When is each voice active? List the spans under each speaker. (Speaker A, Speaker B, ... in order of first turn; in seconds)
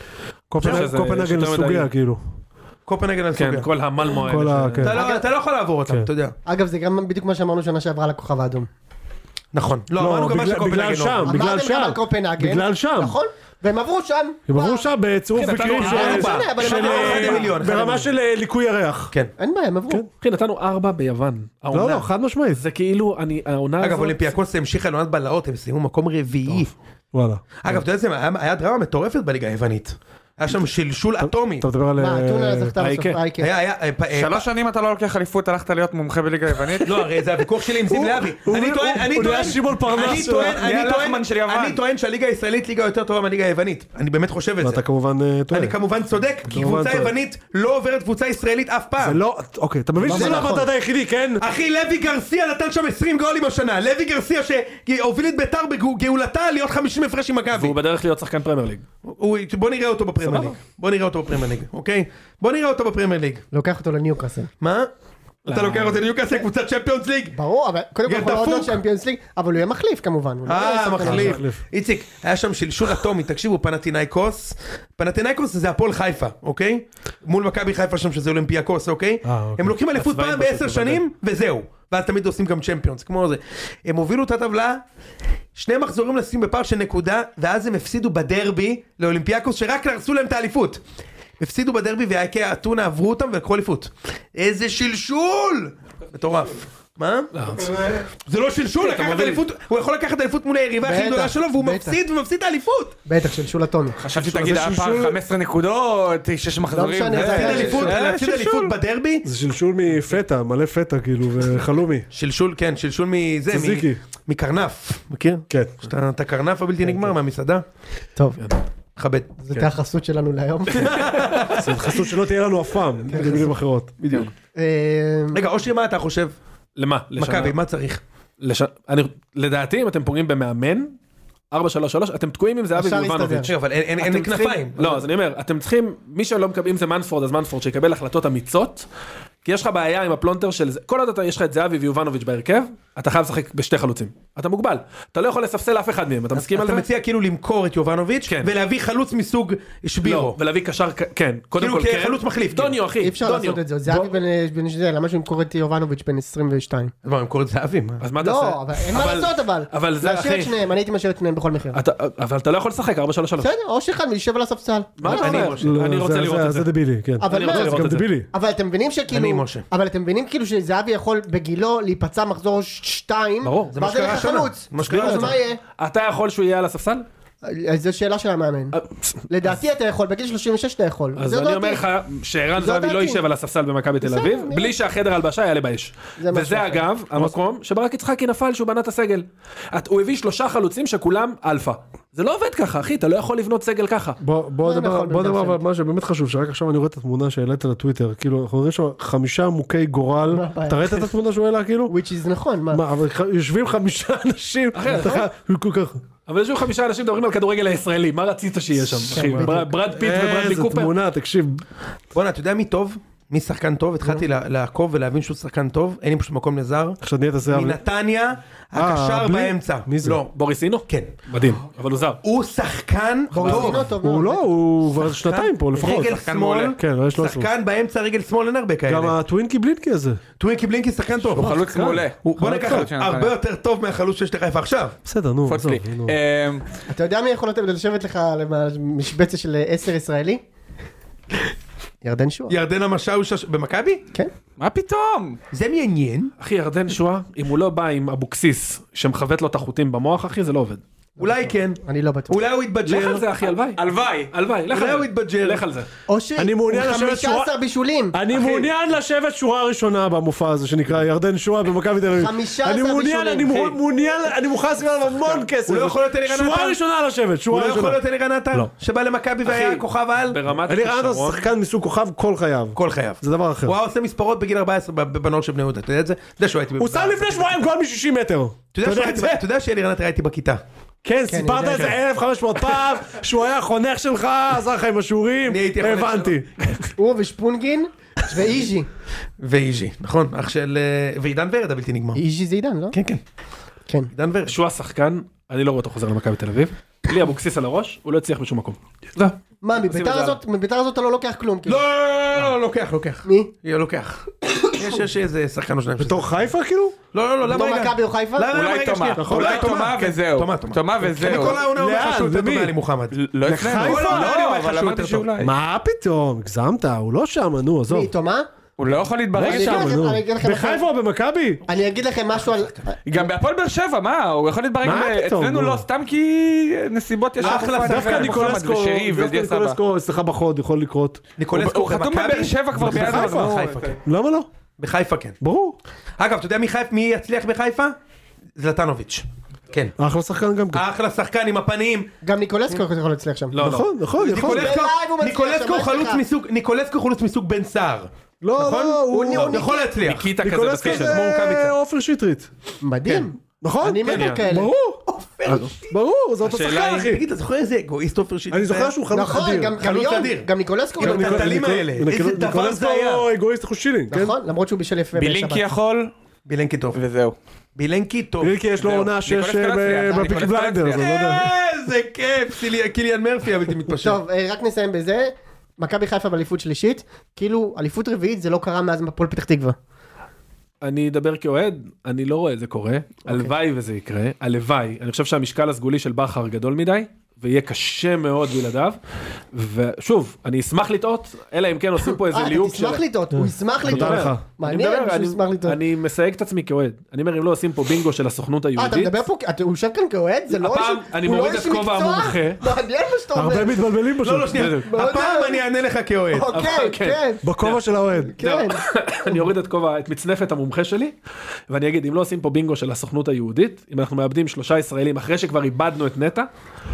Speaker A: 0.5-2.2, 4.2-5.0, 9.9-13.2, 14.5-19.1, 21.7-22.6, 27.1-27.4, 31.2-32.8, 37.8-40.6, 44.6-45.8, 46.5-47.1, 49.0-51.4, 71.0-71.6, 79.2-79.8, 104.1-105.2, 109.2-112.1, 113.5-114.0, 115.5-115.8, 121.5-123.9, 165.6-168.3, 194.2-201.9, 202.7-206.0, 208.7-211.6, 217.0-217.8, 218.8-220.2, 223.4-226.2, 226.8-227.5, 228.9-230.2, 231.4-232.9, 235.0-236.1, 256.4-257.5, 258.1-268.0, 270.6-273.7, 276.8-279.4, 281.0-286.9, 306.0-307.0, 309.2-309.9, 311.2-312.7, 313.4-314.4, 315.4-318.1, 319.3-321.6, 324.8-325.8, 327.4-331.2, 332.8-334.5, 335.4-335.8, 340.0-340.8, 343.6-344.7, 348.4-349.6, 350.4-352.5, 353.6-355.0, 355.9-357.2, 358.5-359.8, 361.0-364.4, 368.4-371.5, 393.3-394.4, 403.3-404.7, 407.4-408.4
Speaker B: 0.6-1.9, 3.4-5.0, 15.3-17.4, 20.2-24.3, 32.8-33.2, 57.5-58.8, 60.2-60.6, 65.5-66.0, 79.9-81.0, 97.3-97.8, 98.8-99.4, 126.8-127.6, 128.4-130.9, 131.5-133.5, 134.8-138.8, 139.4-146.8, 148.3-148.5, 150.0-153.6, 158.0-160.5, 161.7-163.5, 165.0-168.1, 173.4-173.8, 174.8-177.1, 181.2-194.2, 204.7-205.2, 206.2-210.9, 220.3-222.2, 246.4-250.8, 252.8-255.9, 269.4-271.4, 281.7-281.9, 294.4-300.4, 343.5-343.9, 350.0-351.2, 354.0-354.4, 355.4-355.7, 356.4-357.0, 380.8-389.0, 389.5-393.0, 393.8-399.1, 400.6-402.6, 404.5-404.9, 406.5-407.9, 408.4-411.1, 411.7-416.5
Speaker C: 2.9-3.7, 4.8-6.3, 9.5-11.4, 15.6-18.1, 23.8-26.7, 27.6-31.7, 33.4-34.4, 36.8-44.8, 45.5-49.2, 51.4-57.8, 59.0-63.4, 64.6-64.9, 65.5-67.4, 68.0-68.8, 70.4-84.8, 85.5-90.8, 91.4-103.0, 107.1-109.3, 112.1-117.6, 119.0-119.5, 120.7-122.0, 124.0-124.3, 125.3-126.3, 127.2-128.0, 133.4-134.9, 146.3-150.4, 151.6-152.8, 157.0-158.1, 165.1-165.7, 169.1-169.7, 173.7-175.4, 212.1-220.3, 220.8-221.1, 222.2-223.9, 225.0-229.2, 230.4-231.6, 232.2-235.0, 242.5-244.1, 245.5-246.3, 251.2-253.3, 254.7-255.6, 265.5-266.8, 267.5-270.4, 272.7-277.5, 278.7-280.6, 285.5-286.4, 289.4-292.2, 292.9-293.2, 294.1-294.5, 301.6-306.3, 307.1-313.2, 313.7-315.3, 322.3-322.9, 327.4-328.6, 331.4-333.9, 334.8-335.4, 336.2-337.9, 338.6-339.9, 340.7-342.1, 344.2-350.3, 350.8-351.8, 353.0-353.3, 355.1-355.9, 356.6-359.0, 359.7-360.5, 361.0-363.2, 366.4-367.0, 367.8-368.6, 370.8-374.2, 400.7-401.6, 404.2-406.5
Speaker D: 4.9-5.3, 6.5-8.7, 11.2-14.9, 15.7-17.5, 19.4-20.0, 32.0-33.5, 50.0-50.7, 63.5-64.5, 67.3-71.4, 100.8-102.0, 103.0-104.0, 106.7-108.0, 118.2-118.4, 119.4-121.2, 123.1-123.5, 124.5-125.4, 132.7-134.6, 153.0-156.9, 158.2-161.8, 163.4-165.5, 167.2-175.6, 177.4-178.8, 179.3-181.8, 182.6-183.2, 184.0-184.7, 186.2-186.8, 194.6-195.6, 200.3-201.1, 201.9-202.8, 204.9-205.3, 209.2-209.7, 223.3-224.5, 236.9-240.4, 242.0-242.6, 251.2-252.4, 256.1-258.2, 262.1-263.7, 281.3-281.9, 287.0-288.9, 292.1-293.0, 299.6-301.9, 303.2-303.5, 307.4-308.5, 317.9-318.5, 319.4-320.8, 321.7-323.3, 342.2-343.6, 344.4-346.2, 349.1-349.9, 352.8-354.7, 359.1-361.6, 364.1-365.6, 370.1-370.5, 373.9-379.8, 383.3-383.5, 392.1-395.8, 398.8-403.9, 404.8-405.6, 406.3-407.5, 408.3-409.4
Speaker E: 34.1-37.1, 39.9-41.8, 104.0-108.7, 225.8-226.8, 231.3-233.3, 235.5-236.6, 244.6-245.4, 253.8-254.3, 308.5-311.6, 313.1-315.5, 318.8-320.0, 323.1-329.8, 331.5-333.9, 365.1-366.1, 366.9-367.4, 368.8-371.2